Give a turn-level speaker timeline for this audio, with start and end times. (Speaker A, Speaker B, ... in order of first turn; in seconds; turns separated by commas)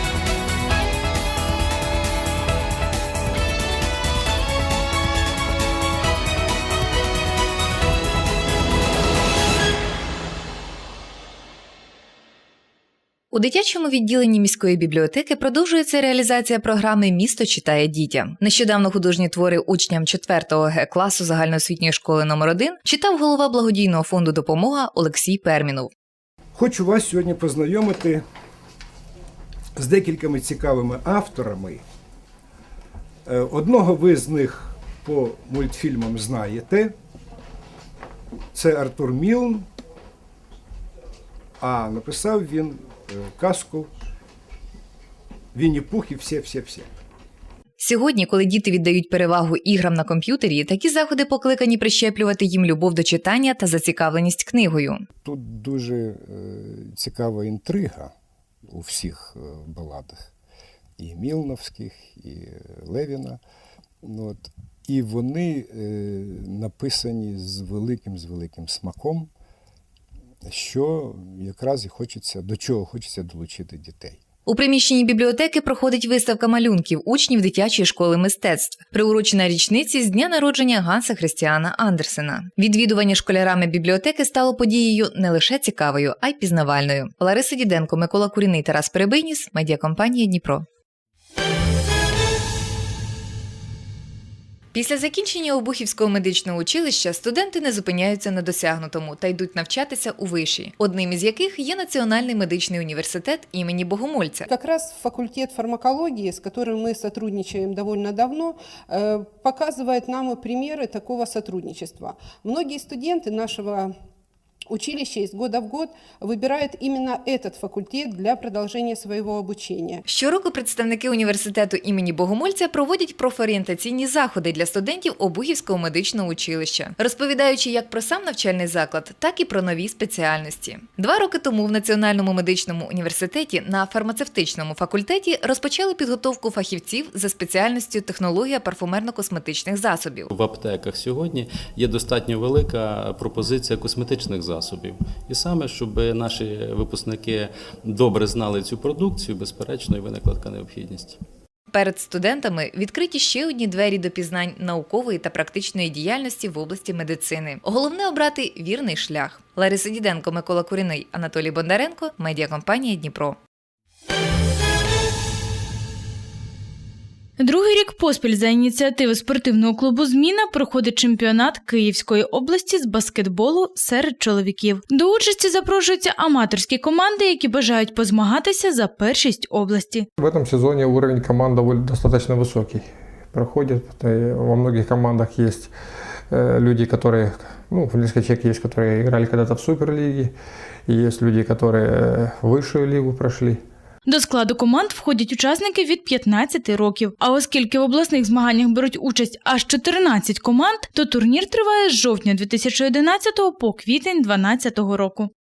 Speaker A: 13.3-25.9, Speaker B: 26.5-28.2, Speaker B: 29.7-31.8, Speaker B: 33.2-36.9, Speaker B: 38.5-39.7, Speaker B: 41.6-43.9, Speaker B: 45.5-46.9, Speaker A: 47.8-55.0, Speaker B: 55.2-58.1, Speaker B: 58.7-60.3, Speaker B: 61.0-63.4, Speaker B: 64.0-69.3, Speaker B: 70.5-74.2, Speaker A: 74.5-90.6, Speaker A: 94.7-104.5, Speaker C: 104.5-113.9, Speaker C: 114.7-120.0, Speaker A: 120.1-140.3, Speaker D: 140.3-151.2, Speaker A: 151.7-163.4, Speaker E: 167.4-180.1, Speaker F: 180.2-185.7, Speaker F: 186.3-190.3, Speaker F: 190.9-193.6, Speaker E: 194.1-205.3